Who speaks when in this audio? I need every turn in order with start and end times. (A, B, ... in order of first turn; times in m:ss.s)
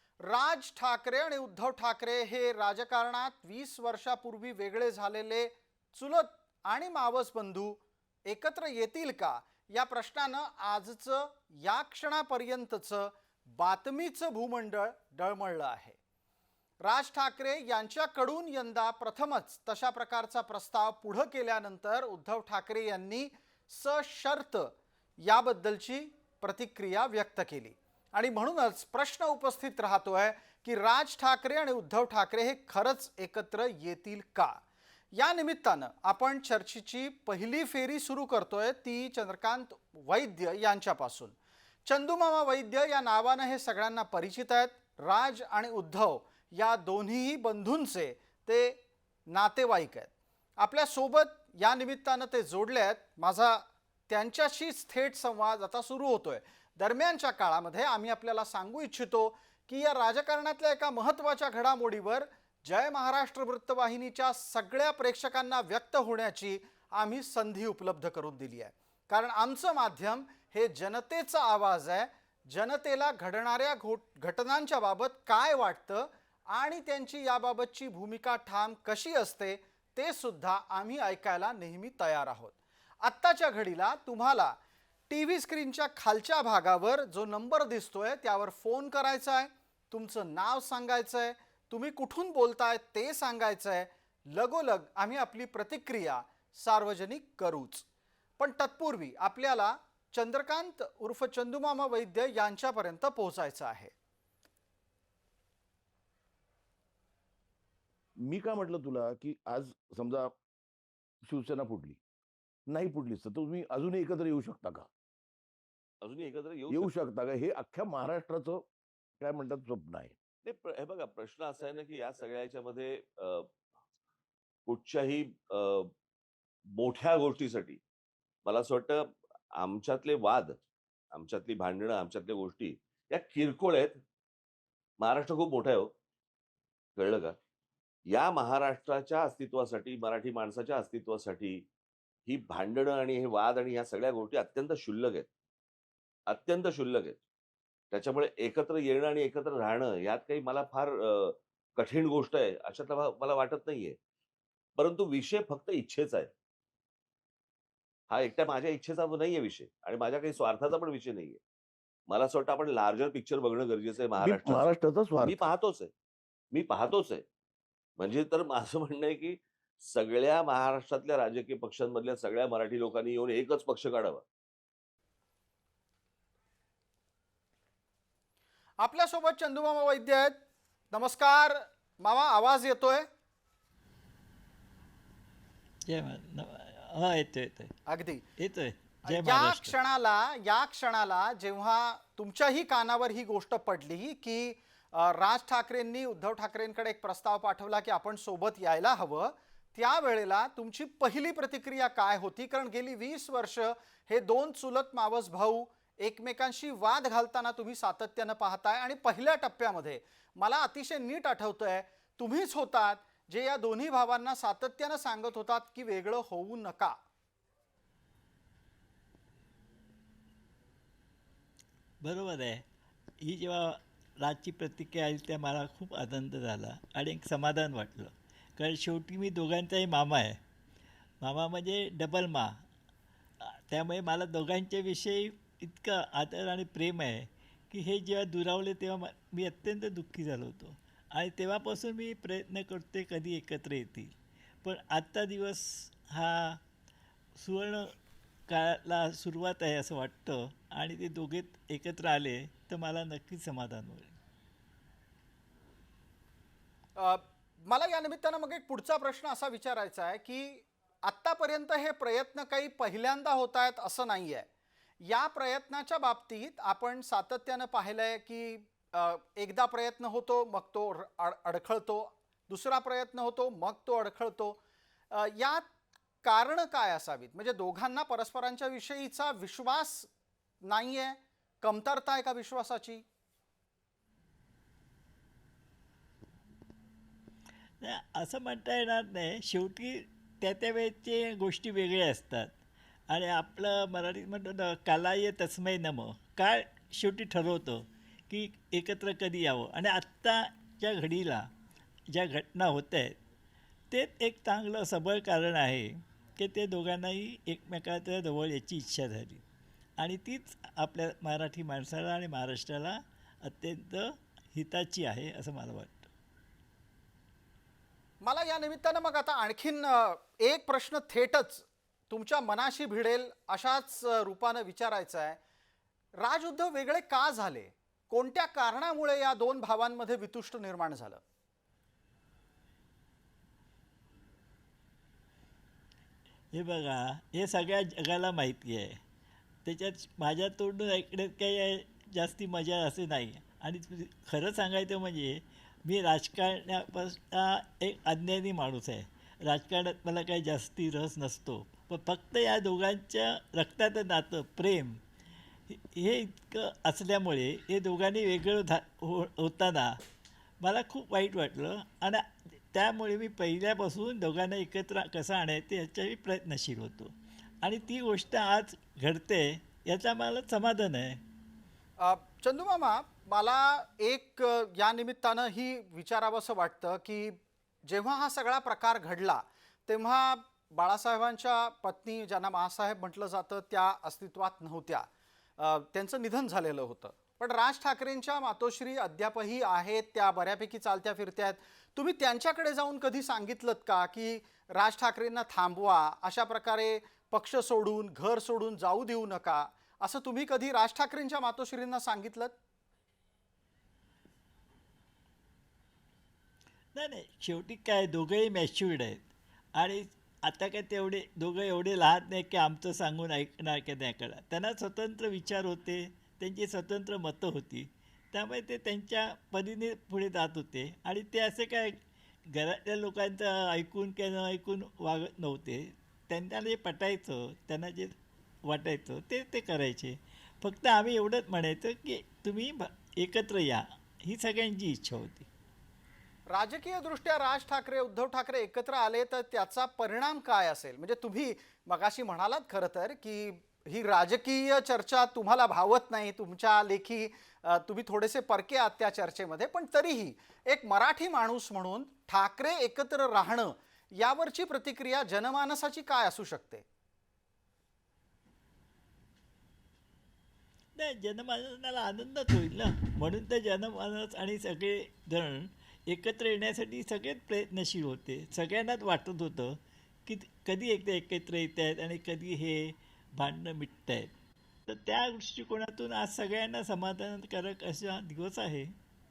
0:00.2-0:16.0 A
0:16.8-0:34.6 A
0:35.1-0:41.4 A
0:41.9-1:24.6 A
1:25.1-1:37.9 A
1:38.4-1:43.9 A
1:48.2-1:50.4 B
1:51.2-1:52.0 B
1:52.7-1:54.9 B
1:56.0-1:56.9 C
1:56.7-1:58.7 B
1:59.2-2:00.2 B
2:00.4-2:03.5 C
2:04.7-2:05.9 C
2:06.8-2:07.8 C
2:08.5-2:09.0 C
2:09.6-2:10.5 C
2:11.1-2:14.0 C
2:15.0-2:15.9 C
2:17.0-2:17.4 C
2:18.1-2:21.6 C
2:22.3-2:25.3 C
2:26.3-2:27.2 C
2:27.9-2:34.0 C
2:34.8-2:36.3 C
2:38.1-2:41.4 C
2:42.1-2:44.7 C
2:44.2-2:45.5 B
2:45.2-2:45.9 C
2:46.5-2:47.2 C
2:48.0-2:54.2 C
2:58.8-3:00.4 A
3:00.9-3:03.1 A
3:05.9-3:07.7 D
3:07.9-3:08.3 A
3:08.4-3:09.8 D
3:09.1-3:37.0 A
3:42.0-3:42.6 D
3:43.2-3:50.4 D
3:51.2-3:52.6 D
3:53.4-4:06.6 D
4:07.4-4:07.9 D
4:08.5-4:14.2 D
4:17.0-4:24.5 A
4:25.0-4:34.6 A
4:35.1-4:35.6 A
4:36.2-4:40.1 A
4:40.6-4:43.0 A
4:47.8-4:52.5 D
4:53.1-5:01.5 D
5:02.1-5:03.2 D
5:03.9-5:09.4 D
5:10.0-5:16.1 D
5:18.2-5:25.4 A
5:26.2-5:31.2 A
5:36.5-5:39.0 D
5:39.6-5:55.0 D
5:55.7-6:00.0 D
6:00.6-6:11.2 D
6:12.0-6:25.1 A
6:25.6-6:42.5 A
6:46.9-7:02.0 D
7:02.5-7:15.5 D
7:16.5-7:36.8 A
7:41.0-7:54.3 D
7:54.9-7:59.0 D